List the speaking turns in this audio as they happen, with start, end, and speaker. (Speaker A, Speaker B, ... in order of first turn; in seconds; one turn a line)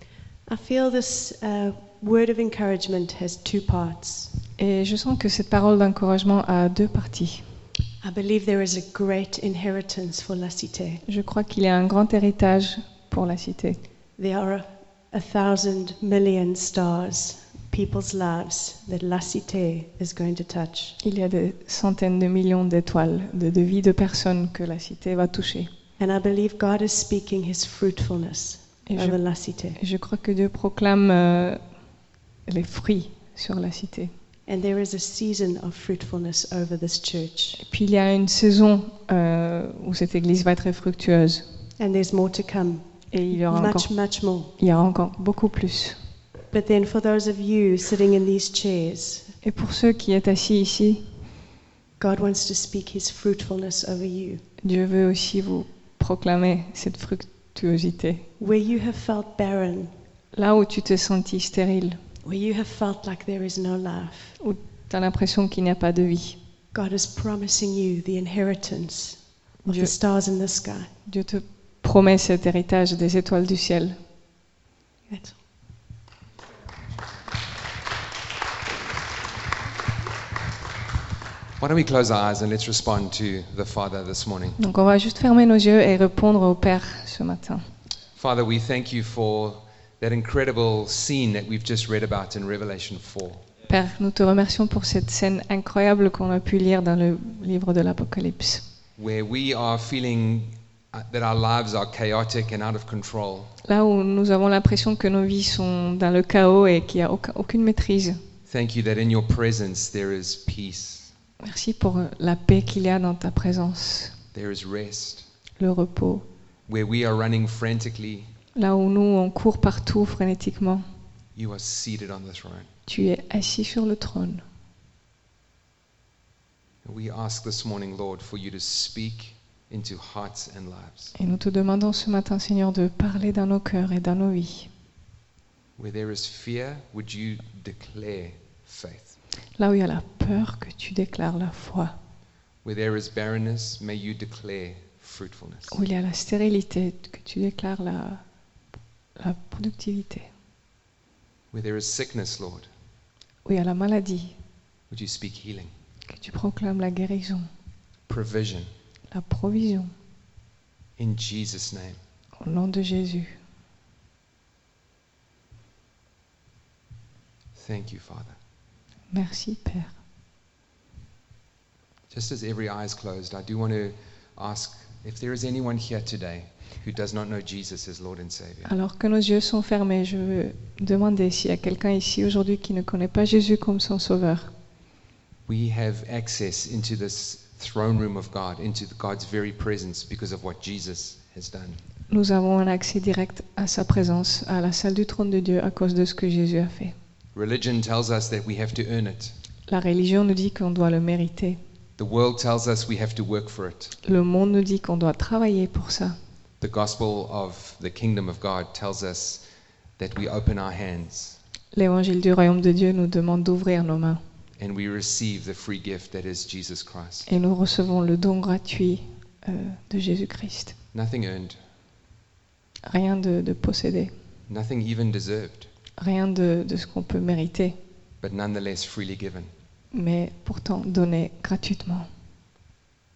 Speaker A: 0.5-4.3
Speaker B: 4.6-7.4
Speaker A: 8.0-11.0
Speaker B: 11.1-13.8
Speaker A: 14.2-21.0
Speaker B: 21.0-25.7
Speaker A: 26.0-29.8
Speaker B: 28.9-29.2
Speaker B: 29.7-31.6
Speaker B: 32.5-34.1
Speaker A: 34.5-37.6
Speaker B: 37.6-41.4
Speaker A: 41.8-44.5
Speaker B: 43.1-43.9
Speaker B: 44.6-46.0
Speaker A: 46.5-49.3
Speaker B: 49.4-51.0
Speaker A: 52.0-54.4
Speaker B: 54.6-58.2
Speaker A: 58.4-59.9
Speaker B: 60.3-62.0
Speaker A: 62.2-64.3
Speaker B: 64.4-66.4
Speaker A: 66.7-70.9
Speaker B: 69.7-69.9
Speaker B: 71.0-74.0
Speaker A: 75.1-75.4
Speaker C: 81.6-84.6
Speaker B: 84.6-87.6
Speaker C: 88.2-93.4
Speaker B: 93.7-98.6
Speaker C: 99.0-103.5
Speaker B: 103.6-108.2
Speaker C: 108.5-111.1
Speaker B: 111.4-114.1
Speaker C: 114.3-115.2
Speaker B: 115.6-116.2
Speaker C: 116.7-118.3
Speaker B: 118.5-120.8
Speaker C: 121.3-122.7
Speaker B: 122.9-124.4
Speaker C: 126.8-131.1
Speaker B: 131.1-134.7
Speaker C: 135.8-139.1
Speaker B: 139.6-141.9
Speaker C: 142.6-145.8
Speaker B: 145.7-148.2
Speaker B: 149.2-150.3
Speaker C: 151.5-152.7
Speaker B: 153.4-154.3
Speaker C: 154.9-155.7
Speaker B: 156.1-157.5
Speaker C: 158.1-158.7
Speaker B: 159.1-159.9
Speaker C: 161.0-162.0
Speaker B: 162.4-163.4
Speaker C: 167.5-168.4
Speaker B: 169.1-169.9
Speaker C: 172.1-178.7
Speaker B: 178.7-184.5
Speaker C: 185.5-191.8
Speaker B: 192.1-196.9
Speaker C: 197.3-199.3
Speaker B: 199.7-201.6
Speaker C: 202.0-203.9
Speaker B: 204.0-206.2
Speaker C: 206.6-209.4
Speaker C: 210.0-211.4
Speaker B: 211.7-214.2
Speaker C: 214.6-217.3
Speaker B: 217.3-220.8
Speaker C: 220.9-221.6
Speaker B: 222.8-224.1
Speaker C: 224.5-225.7
Speaker B: 226.0-227.8
Speaker C: 228.2-229.5
Speaker B: 229.9-232.1